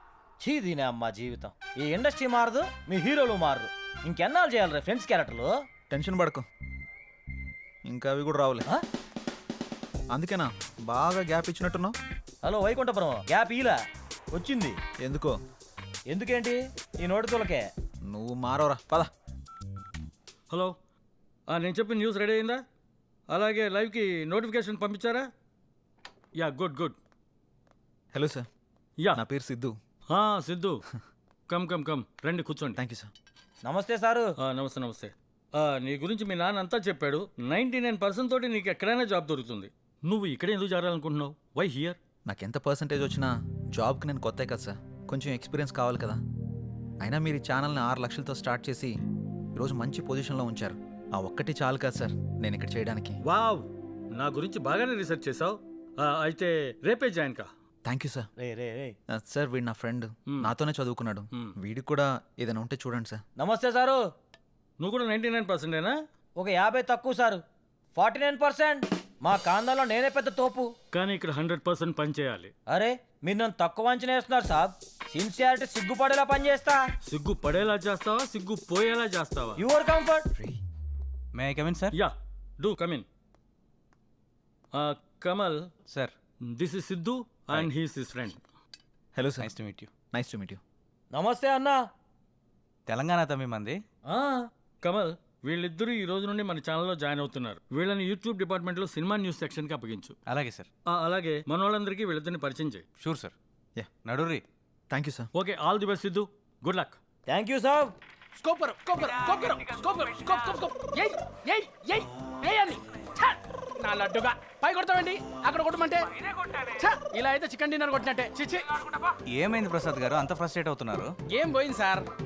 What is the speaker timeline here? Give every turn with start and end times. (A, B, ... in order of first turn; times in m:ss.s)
0:00.4-0:05.6 A
0:05.9-0:06.5 B
0:07.9-0:08.7 B
0:10.1-0:12.0 B
0:12.4-0:13.8 A
0:14.3-0:14.8 A
0:15.0-0:15.4 B
0:16.1-0:17.6 A
0:18.1-0:19.1 B
0:20.5-0:20.8 C
0:21.5-0:22.6 C
0:23.3-0:25.3 C
0:26.4-0:27.0 C
0:28.1-0:28.5 B
0:29.2-0:29.8 B
0:30.1-0:30.8 C
0:31.5-0:32.8 C
0:32.8-0:33.1 B
0:33.6-0:34.3 A
0:34.4-0:42.0 C
0:42.3-0:46.2 B
0:47.0-0:48.9 B
0:49.6-0:53.2 B
0:53.3-0:53.7 A
0:54.2-0:57.5 C
0:57.8-0:58.3 B
0:58.4-0:59.0 A
0:59.1-1:03.2 B
1:03.4-1:04.0 A
1:04.8-1:06.0 C
1:06.4-1:07.4 A
1:08.0-1:10.7 A
1:10.9-1:12.5 C
1:12.7-1:16.8 A
1:17.1-1:19.6 C
1:19.6-1:20.3 A
1:20.4-1:20.6 B
1:21.4-1:22.0 D
1:21.9-1:23.1 C
1:24.7-1:25.7 C
1:26.5-1:28.4 C
1:29.2-1:29.5 B
1:29.4-1:29.9 D
1:30.1-1:30.6 B
1:31.1-1:31.8 A
1:32.9-1:33.8 D
1:34.1-1:34.5 A
1:34.8-1:40.2 C
1:40.3-1:40.7 D
1:40.9-1:42.8 C
1:43.0-1:43.3 D
1:44.1-1:44.4 D
1:44.9-1:45.3 B
1:45.4-1:47.0 C
1:47.3-1:47.9 A
1:48.4-1:59.0 E
1:59.3-2:01.1 D
2:01.3-2:02.0 E